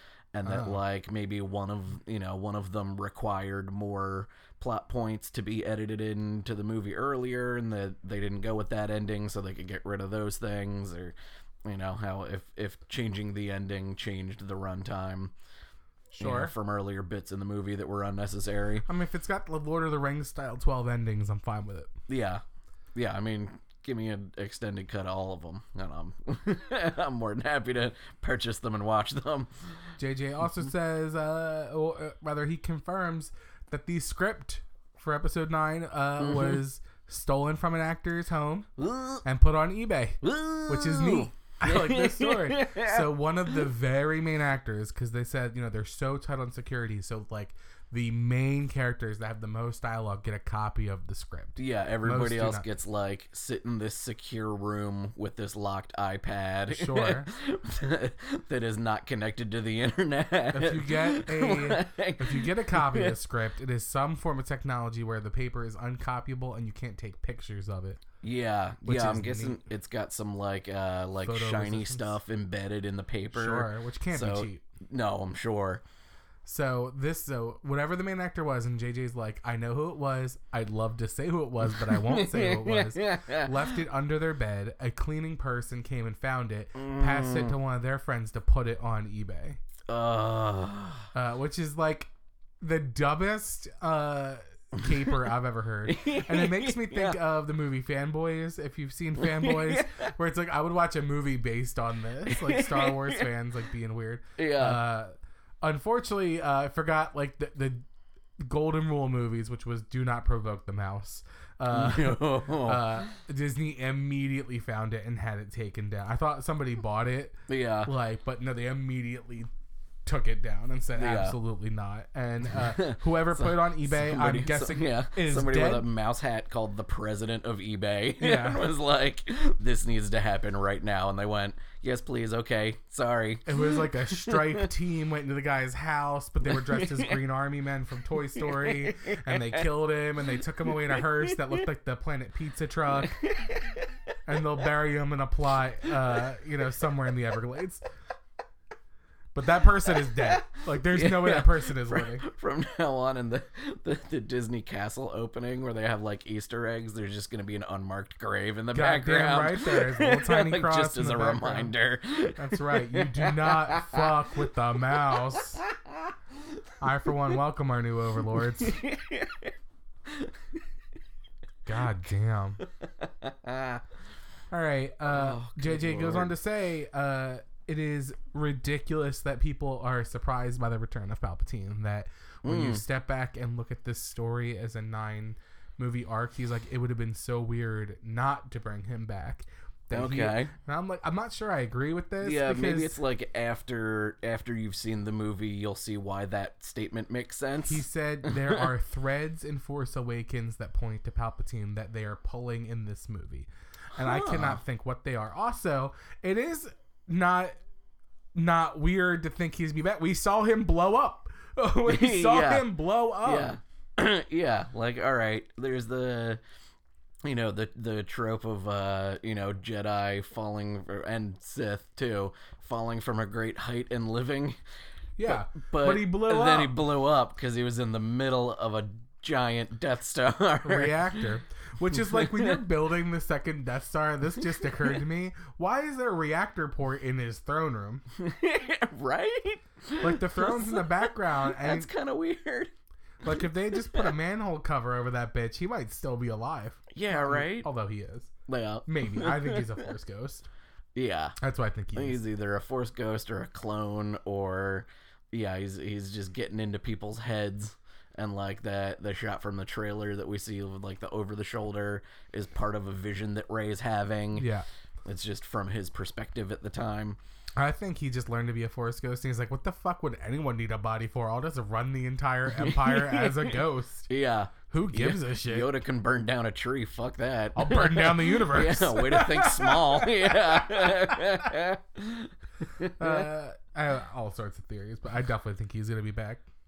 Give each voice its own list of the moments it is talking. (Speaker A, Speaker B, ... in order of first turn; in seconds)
Speaker A: 0.3-15.3, 16.2-18.8, 22.1-22.4, 22.9-29.7, 36.2-36.6, 38.8-39.2, 40.2-43.6, 51.6-63.1, 68.2-75.8, 81.7-83.5, 86.8-87.5, 89.9-91.1, 95.8-97.2, 99.2-100.1, 102.3-103.2, 104.4-104.8, 111.7-113.1, 117.5-117.9, 121.0-121.4, 122.5-134.7, 136.4-137.2, 138.3-139.6, 140.7-141.6, 143.0-143.9, 149.9-166.1, 168.6-169.5, 170.1-170.4, 172.8-173.8, 175.1-176.3, 182.4-182.8, 189.9-190.5, 192.2-198.7, 203.9-204.6, 211.8-216.4, 217.2-224.6, 225.3-231.0, 231.9-232.6, 234.6-235.0, 238.1-242.7, 243.2-244.1, 246.9-247.7, 248.5-249.8, 250.9-251.3, 251.9-264.5, 265.0-267.2, 272.5-283.3
Speaker B: 0.4-0.8, 16.1-16.5, 18.9-21.9, 30.0-38.7, 39.2-52.7, 56.7-57.3, 60.5-68.0, 68.8-69.6, 71.2-72.2, 73.3-74.6, 76.4-89.6, 91.1-92.1, 92.6-107.8, 108.4-119.5, 120.0-125.9, 128.2-128.7, 133.4-143.2, 144.2-147.8, 149.3-152.2, 158.7-161.7, 162.3-165.6, 166.8-168.8, 171.7-172.6, 174.5-192.9, 197.7-207.5, 208.3-213.6, 225.2-226.8, 230.6-238.0, 240.0-241.9, 243.2-248.3, 248.8-250.5, 251.4-252.2, 264.4-264.6, 267.6-274.1, 274.7-275.7, 277.5-281.2, 282.9-286.4